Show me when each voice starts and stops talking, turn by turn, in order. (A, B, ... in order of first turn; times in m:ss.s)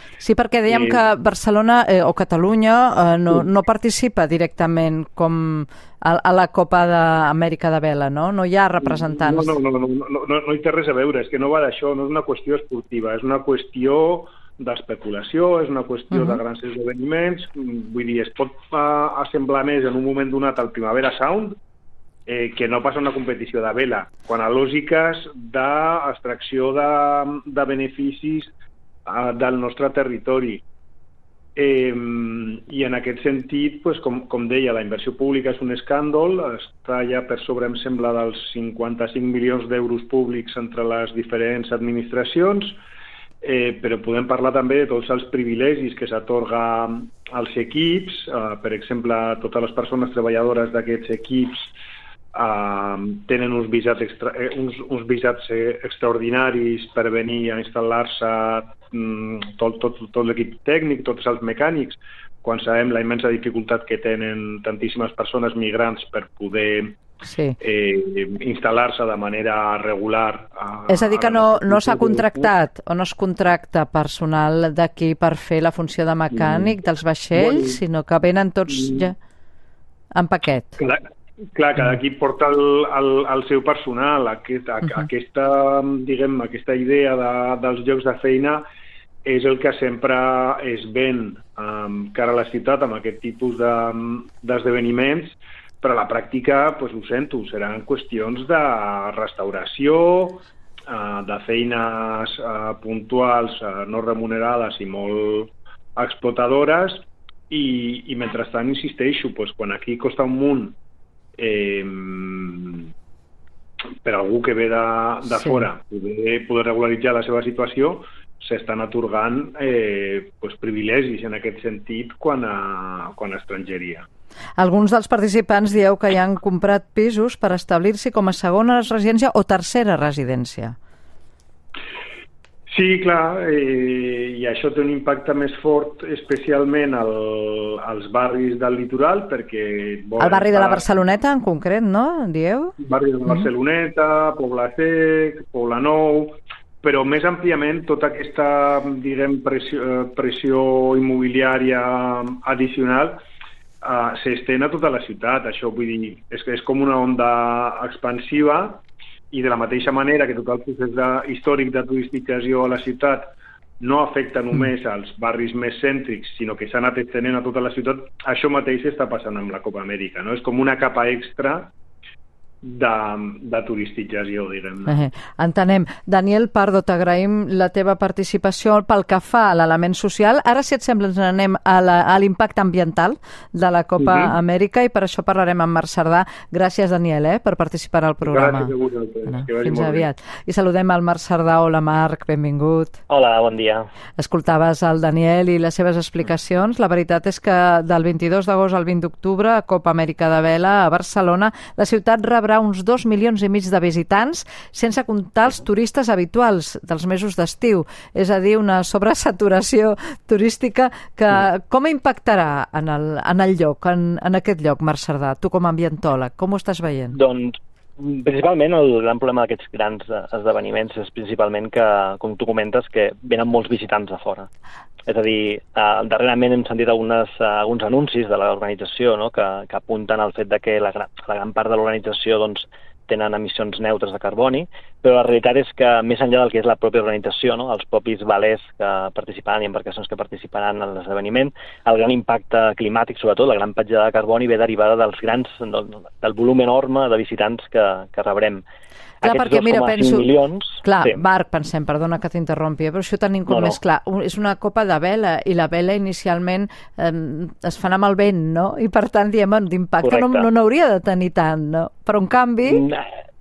0:00.2-0:09.6 A
0:00.7-0:01.0 B
0:08.8-0:21.6 B
0:16.1-0:16.4 A
0:22.3-0:28.5 B
0:29.1-0:30.6 B
0:31.6-0:42.8 B
0:43.4-0:51.7 B
0:52.3-1:07.0 B
1:07.2-1:07.6 A
1:07.6-1:12.5 B
1:10.9-1:19.2 A
1:16.4-1:16.7 B
1:17.4-1:17.8 B
1:18.7-1:19.1 B
1:20.2-1:20.8 A
1:20.8-1:21.0 B
1:21.6-1:28.6 B
1:29.2-1:50.8 B
1:51.4-1:52.9 B
1:54.0-2:04.1 B
2:04.6-2:10.8 A
2:12.7-2:20.9 B
2:20.2-2:22.7 A
2:22.8-2:33.2 B
2:33.8-2:51.7 B
2:52.6-2:55.0 B
2:54.9-3:08.7 A
3:04.0-3:04.3 B
3:08.2-3:10.1 B
3:09.3-3:13.0 A
3:13.1-3:13.9 C
3:14.2-3:37.2 A
3:37.1-3:44.5 C
3:45.1-4:08.6 C
4:09.2-4:11.2 C
4:09.2-4:10.3 A
4:10.8-4:22.8 A
4:13.5-4:13.8 C
4:20.0-4:20.5 C
4:22.7-4:23.0 C